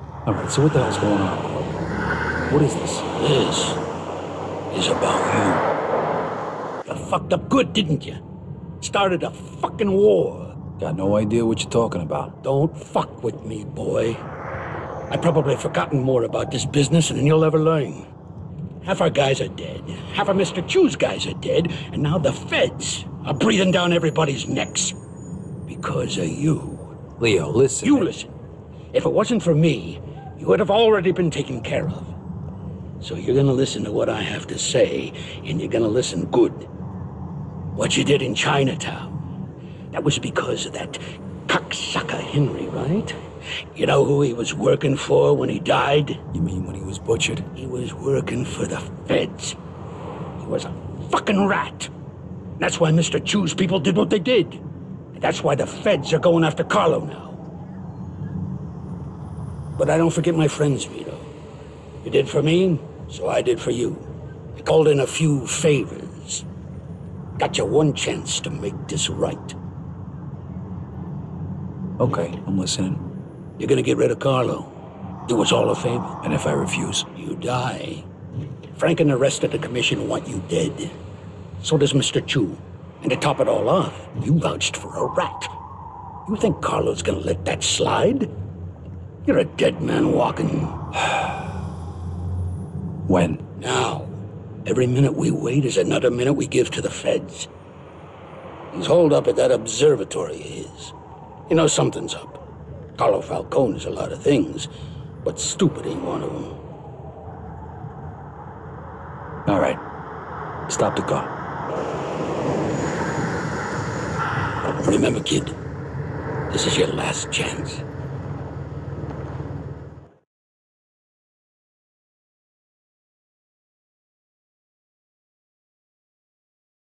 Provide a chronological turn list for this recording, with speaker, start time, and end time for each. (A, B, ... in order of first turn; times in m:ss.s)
0:00.2-0:01.6 A
0:02.5-0:03.1 A
0:03.2-0:03.8 B
0:04.7-0:05.6 B
0:06.8-0:08.2 B
0:08.8-0:10.6 B
0:10.8-0:12.4 A
0:12.4-0:14.2 B
0:15.1-0:18.1 B
0:18.8-0:25.0 B
0:25.7-0:27.0 B
0:27.2-0:28.1 A
0:27.8-0:28.4 B
0:28.9-0:32.1 B
0:33.0-0:36.7 B
0:37.8-0:39.1 B
0:39.9-0:43.2 B
0:43.7-0:46.2 B
0:46.3-0:47.5 A
0:47.5-0:49.6 B
0:50.4-0:51.9 B
0:52.6-0:57.4 B
0:59.8-1:01.3 B
1:02.0-1:06.4 B
1:07.4-1:09.6 B
1:12.0-1:13.0 A
1:13.6-1:14.7 B
1:15.2-1:16.2 B
1:16.2-1:17.1 A
1:17.2-1:18.1 B
1:18.7-1:21.0 B
1:21.6-1:25.5 B
1:26.2-1:28.3 B
1:29.2-1:30.8 B
1:33.1-1:33.4 A
1:33.6-1:37.5 B
1:38.7-1:40.9 B
1:41.5-1:42.4 B
1:43.0-1:44.7 B
1:45.2-1:46.6 B
1:49.4-1:49.8 A
1:50.7-1:51.3 A
1:54.8-1:55.6 B
1:56.5-1:57.8 B